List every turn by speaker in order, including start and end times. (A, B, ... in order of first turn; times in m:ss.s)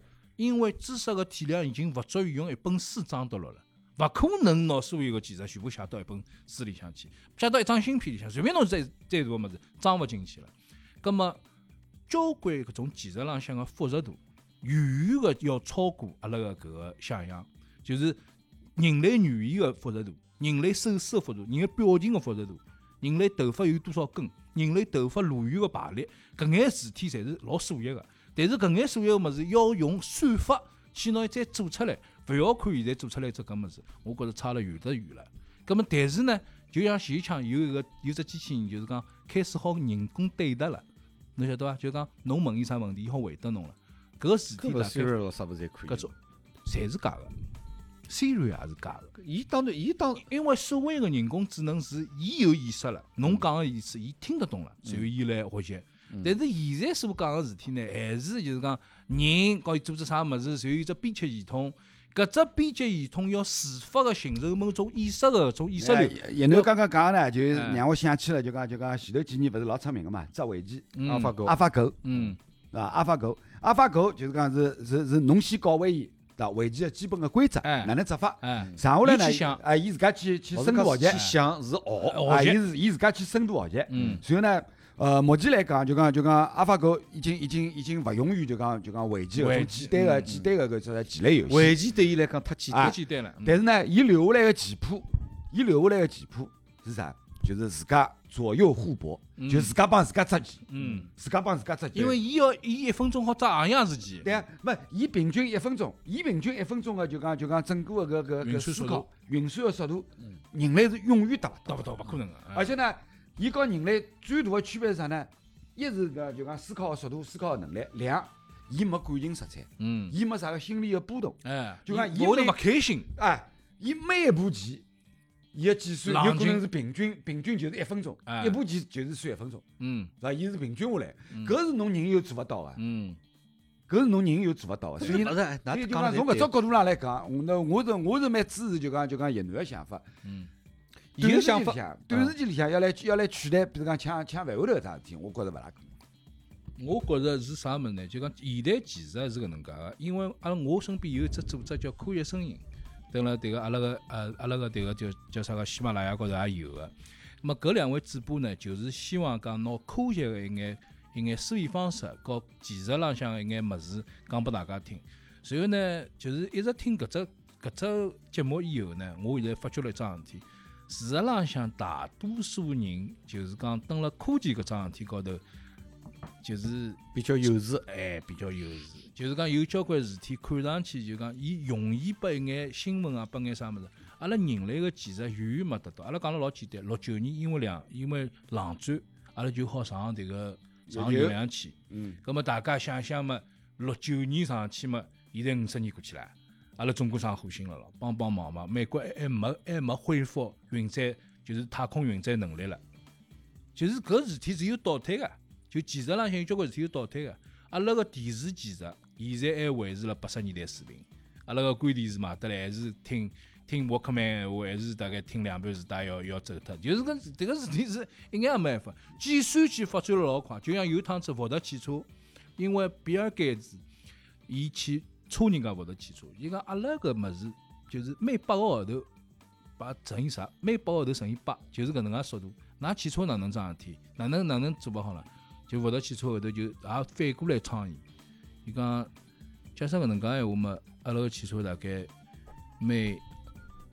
0:00.4-0:11.4 A
0:12.1-0:18.2 A
0:18.8-0:40.8 A
0:41.4-0:45.1 A
0:44.6-0:46.1 B
0:46.6-0:47.3 A
0:48.1-0:49.1 A
0:49.2-0:50.2 B
0:50.2-1:06.7 A
0:56.1-0:56.3 B
1:05.8-1:12.0 C
1:07.5-1:07.8 A
1:11.0-1:11.5 A
1:11.0-1:11.5 B
1:12.0-1:12.4 A
1:12.7-1:21.2 C
1:17.6-1:19.6 A
1:20.5-1:22.2 B
1:21.1-1:21.4 A
1:22.0-1:22.6 A
1:22.2-1:31.8 C
1:23.9-1:24.2 A
1:23.9-1:24.2 B
1:29.4-1:30.3 A
1:31.5-1:33.0 B
1:32.7-1:42.2 C
1:32.8-1:33.6 A
1:39.4-1:39.8 A
1:40.7-1:41.1 A
1:41.9-1:44.4 A
1:44.2-1:51.9 C
1:48.4-1:49.1 A
1:51.7-1:52.7 A
1:52.5-2:02.6 C
1:59.8-2:00.2 A
2:01.4-2:03.1 A
2:03.1-2:04.8 C
2:05.5-2:09.6 C
2:06.0-2:06.7 A
2:08.2-2:08.6 A
2:09.8-2:10.1 A
2:10.2-2:12.8 C
2:11.3-2:11.6 A
2:12.8-2:13.2 A
2:13.9-2:20.0 C
2:15.0-2:16.5 B
2:20.2-2:20.5 A
2:21.2-2:21.8 B
2:21.2-2:25.9 C
2:26.8-2:36.9 A
2:37.4-2:55.4 A
2:56.4-2:57.0 A
2:57.1-2:57.8 B
2:57.9-3:22.8 A
3:10.9-3:11.4 C
3:11.9-3:12.2 C
3:23.8-3:43.8 A
3:44.5-3:49.0 A
3:49.8-3:58.0 A
3:58.6-3:59.1 A
3:59.8-4:02.1 A
4:02.8-4:03.2 A